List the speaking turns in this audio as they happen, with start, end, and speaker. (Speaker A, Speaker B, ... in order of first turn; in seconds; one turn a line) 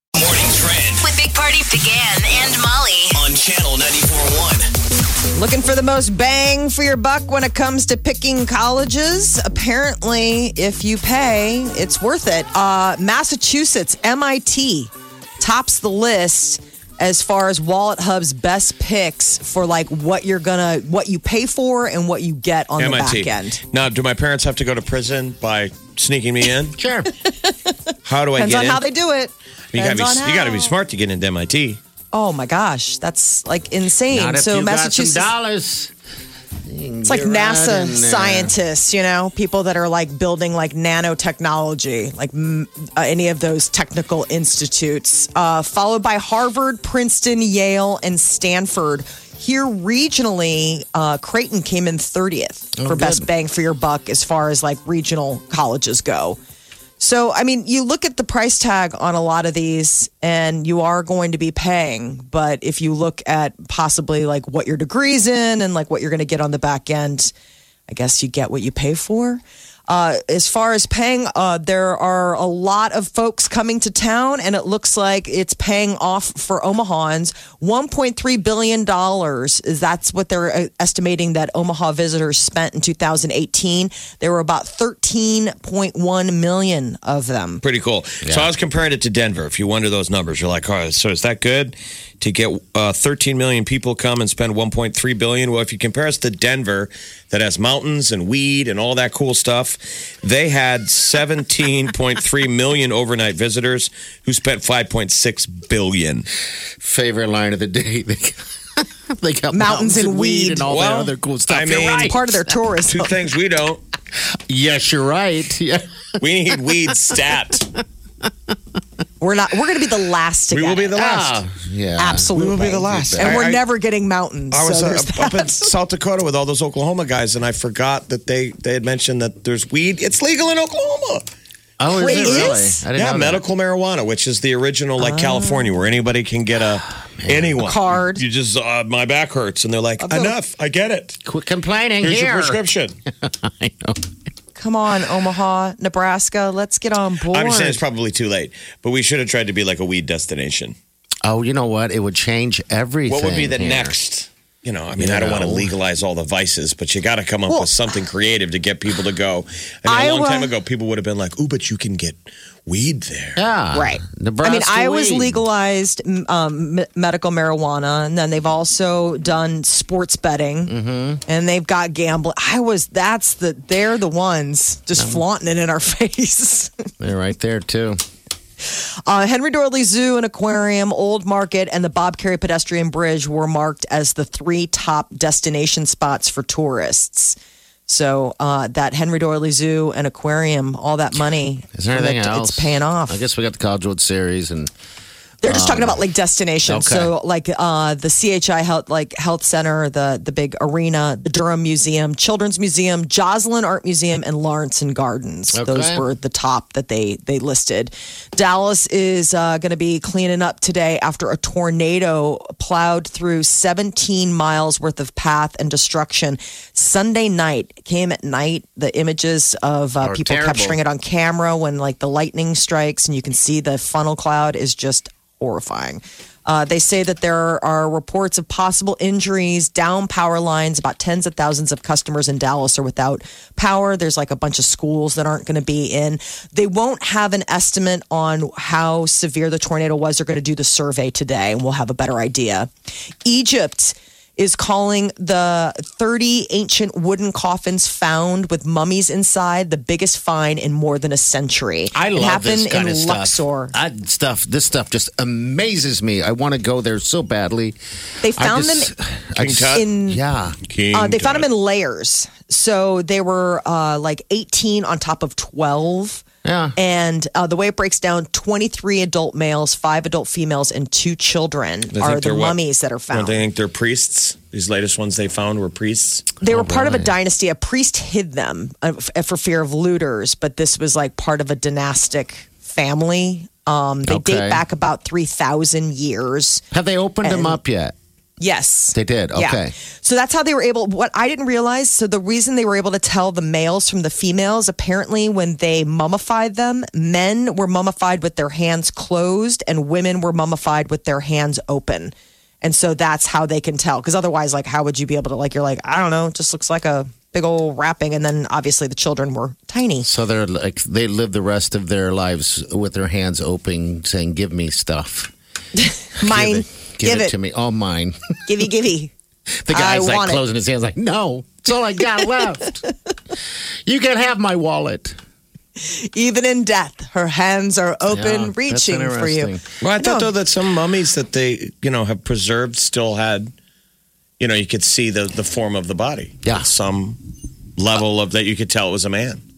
Speaker A: 0.2-1.1
Speaker B: 1.0-3.2
Speaker A: 3.1-4.7
Speaker C: 5.3-23.6
Speaker D: 22.8-26.8
Speaker E: 26.8-27.1
Speaker C: 27.2-27.7
Speaker D: 28.1-28.8
Speaker C: 28.4-30.8
Speaker D: 29.7-31.8
Speaker C: 32.1-35.3
Speaker E: 34.1-35.9
Speaker E: 36.7-38.5
Speaker C: 37.0-56.4
Speaker E: 52.8-53.3
Speaker C: 57.0-67.3
Speaker C: 67.9-87.6
Speaker D: 87.6-106.3
Speaker E: 88.2-88.5
Speaker E: 106.8-112.4
Speaker C: 109.5-110.7
Speaker D: 110.7-112.1
Speaker C: 111.8-113.1
Speaker D: 112.9-113.8
Speaker E: 114.5-115.9
Speaker D: 116.2-117.7
Speaker E: 118.2-118.6
Speaker C: 119.2-120.9
Speaker D: 120.5-121.4
Speaker E: 121.0-123.4
Speaker C: 122.0-125.7
Speaker D: 122.3-123.6
Speaker D: 124.5-131.3
Speaker E: 131.8-133.4
Speaker D: 131.9-141.2
Speaker C: 132.0-132.8
Speaker C: 135.0-135.7
Speaker E: 137.2-137.6
Speaker C: 137.6-138.2
Speaker C: 140.0-140.4
Speaker E: 141.2-144.0
Speaker D: 142.0-143.0
Speaker C: 144.6-147.8
Speaker D: 147.3-150.8
Speaker E: 151.2-154.0
Speaker D: 153.1-163.4
Speaker E: 155.0-155.8
Speaker C: 159.9-160.5
Speaker E: 163.4-165.5
Speaker C: 163.7-170.7
Speaker E: 170.7-171.2
Speaker C: 171.3-176.7
Speaker E: 175.0-175.2
Speaker E: 177.0-178.0
Speaker C: 178.6-187.4
Speaker C: 187.9-193.2
Speaker E: 191.8-194.7
Speaker C: 195.4-242.7
Speaker E: 195.4-196.1
Speaker E: 196.7-197.1
Speaker E: 205.5-206.1
Speaker E: 220.0-220.8
Speaker C: 243.2-253.7
Speaker E: 251.9-257.8
Speaker C: 258.2-258.9
Speaker E: 258.4-260.6
Speaker D: 259.4-259.8
Speaker C: 259.7-260.2
Speaker D: 260.7-261.5
Speaker C: 260.9-266.2
Speaker E: 266.4-266.8
Speaker C: 266.8-273.4
Speaker D: 271.9-272.6
Speaker D: 273.1-276.3
Speaker E: 276.4-277.1
Speaker C: 276.4-286.6
Speaker E: 284.0-284.6
Speaker E: 286.7-287.9
Speaker C: 287.2-287.6
Speaker C: 288.4-310.1
Speaker E: 288.9-289.7
Speaker E: 310.0-315.3
Speaker C: 315.8-317.3
Speaker E: 316.2-318.2
Speaker C: 318.5-319.1
Speaker E: 319.7-322.9
Speaker C: 319.7-320.4
Speaker E: 323.9-325.2
Speaker C: 325.8-330.3
Speaker E: 328.1-329.6
Speaker D: 329.8-333.5
Speaker D: 334.4-337.2
Speaker E: 336.4-336.7
Speaker D: 337.8-339.4